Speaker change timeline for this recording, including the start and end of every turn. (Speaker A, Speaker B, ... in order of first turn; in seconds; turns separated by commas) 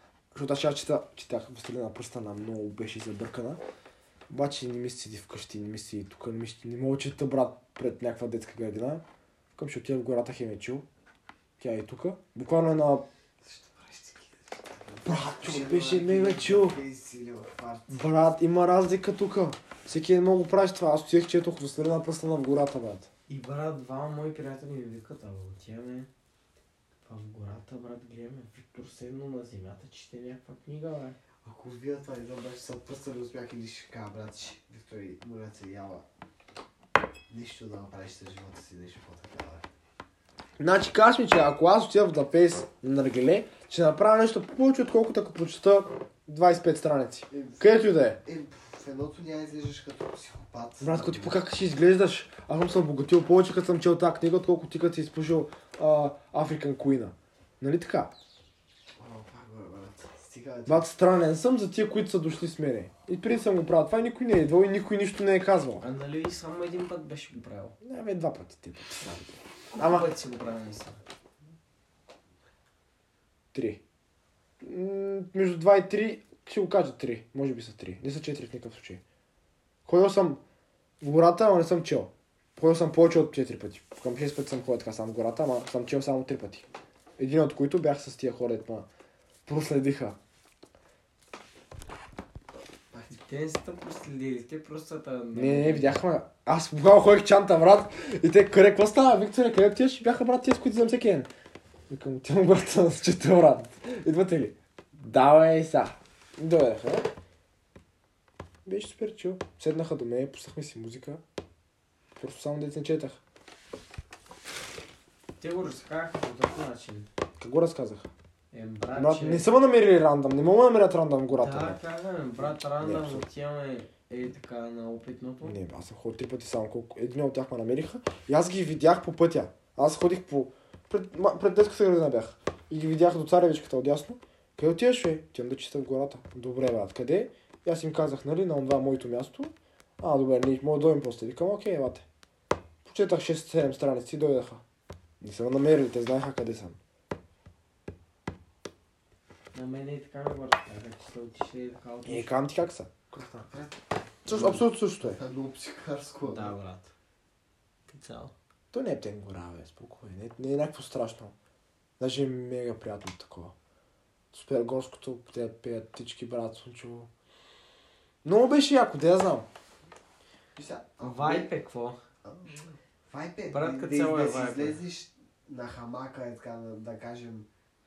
Speaker A: 0.3-3.6, Speaker A: 4.3-9.0, Speaker A: 9.6-10.9, Speaker A: 11.6-13.1, Speaker B: 13.4-18.0, Speaker A: 15.0-16.8, Speaker A: 17.9-23.1, Speaker C: 23.3-26.1, Speaker C: 27.1-31.2, Speaker B: 31.4-36.0, Speaker B: 37.3-39.7, Speaker A: 40.6-48.2, Speaker B: 47.3-51.4, Speaker A: 50.8-58.1, Speaker B: 59.0-60.9, Speaker A: 60.7-65.8, Speaker C: 65.8-67.8, Speaker A: 67.8-70.1, Speaker C: 69.7-71.0, Speaker A: 73.5-73.8, Speaker A: 74.6-79.0, Speaker A: 79.9-80.4, Speaker A: 81.0-88.9, Speaker A: 89.5-90.2, Speaker C: 93.1-96.0, Speaker A: 95.3-101.3, Speaker A: 101.9-107.1, Speaker A: 108.7-111.2, Speaker A: 112.2-113.2, Speaker C: 115.4-117.1, Speaker A: 117.4-118.1, Speaker C: 118.5-119.5, Speaker A: 119.0-121.8, Speaker C: 121.4-125.6, Speaker A: 122.8-123.2, Speaker A: 125.4-142.1, Speaker A: 142.8-144.6, Speaker A: 145.2-146.8, Speaker C: 149.5-152.3, Speaker A: 152.1-153.5, Speaker B: 153.4-153.8, Speaker A: 154.2-155.2, Speaker B: 154.3-156.6, Speaker C: 156.2-156.9, Speaker C: 157.9-158.3, Speaker A: 158.7-161.3, Speaker A: 162.0-163.6, Speaker A: 164.3-167.1, Speaker A: 168.2-169.5, Speaker B: 170.6-171.5, Speaker C: 171.0-172.0, Speaker B: 172.2-177.5, Speaker C: 173.5-174.8